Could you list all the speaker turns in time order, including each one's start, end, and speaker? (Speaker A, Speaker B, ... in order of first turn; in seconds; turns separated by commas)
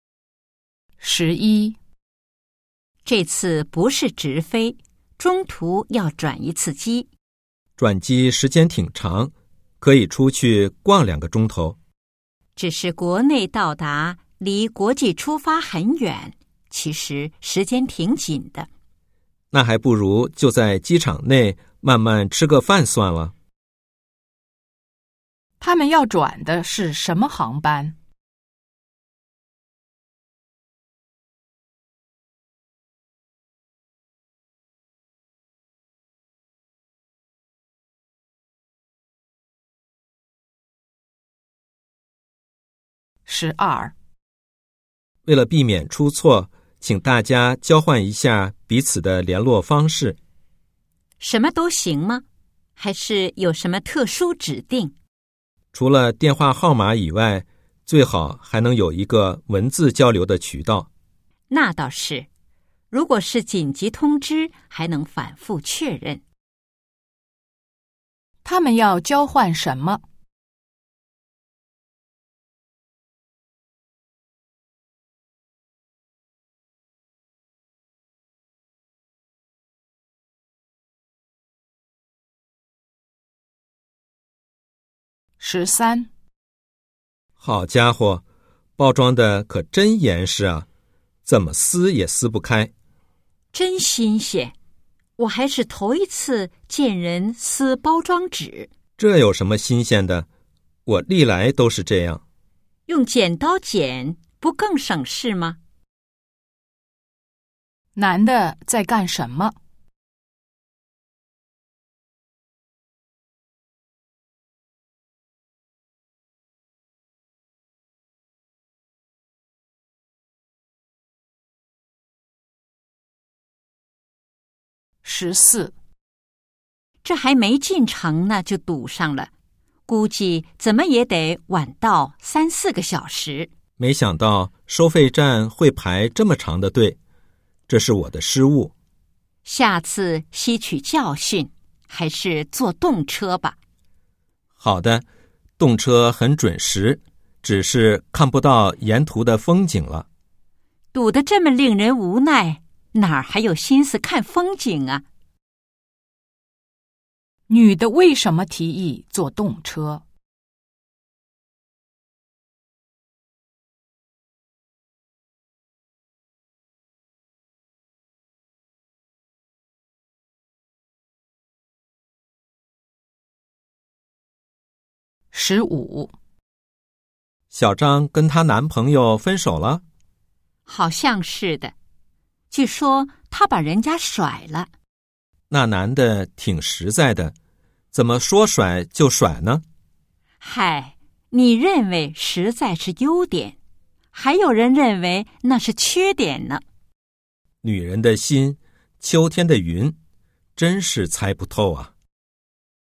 Speaker A: 1.0-1.8, Speaker B: 3.0-7.1, Speaker C: 7.8-11.8, Speaker B: 12.6-18.7, Speaker C: 19.5-23.3, Speaker A: 25.6-27.9, Speaker A: 43.3-43.9, Speaker C: 45.2-50.2, Speaker B: 51.2-52.2, Speaker B: 52.8-54.9, Speaker C: 55.7-60.9, Speaker B: 61.5-62.3, Speaker B: 62.9-66.2, Speaker A: 68.4-70.0, Speaker A: 85.4-86.1, Speaker C: 87.4-88.2, Speaker C: 88.8-90.7, Speaker C: 91.2-92.7, Speaker B: 93.5-94.5, Speaker B: 95.2-98.7, Speaker C: 99.0-100.3, Speaker C: 100.9-102.2, Speaker B: 102.9-105.6, Speaker A: 108.0-109.5, Speaker A: 125.0-125.8, Speaker B: 127.0-129.3, Speaker B: 129.9-133.5, Speaker C: 133.8-137.0, Speaker C: 137.7-138.7, Speaker B: 139.4-143.6, Speaker C: 144.6-145.1, Speaker C: 145.6-150.1, Speaker B: 150.9-155.0, Speaker A: 157.5-160.0, Speaker A: 175.3-176.1, Speaker C: 177.5-179.8, Speaker B: 180.7-181.7, Speaker B: 182.5-184.7, Speaker C: 185.5-187.3, Speaker C: 187.9-189.6, Speaker B: 190.4-193.6, Speaker B: 194.1-196.6, Speaker C: 197.6-200.0, Speaker C: 200.6-201.9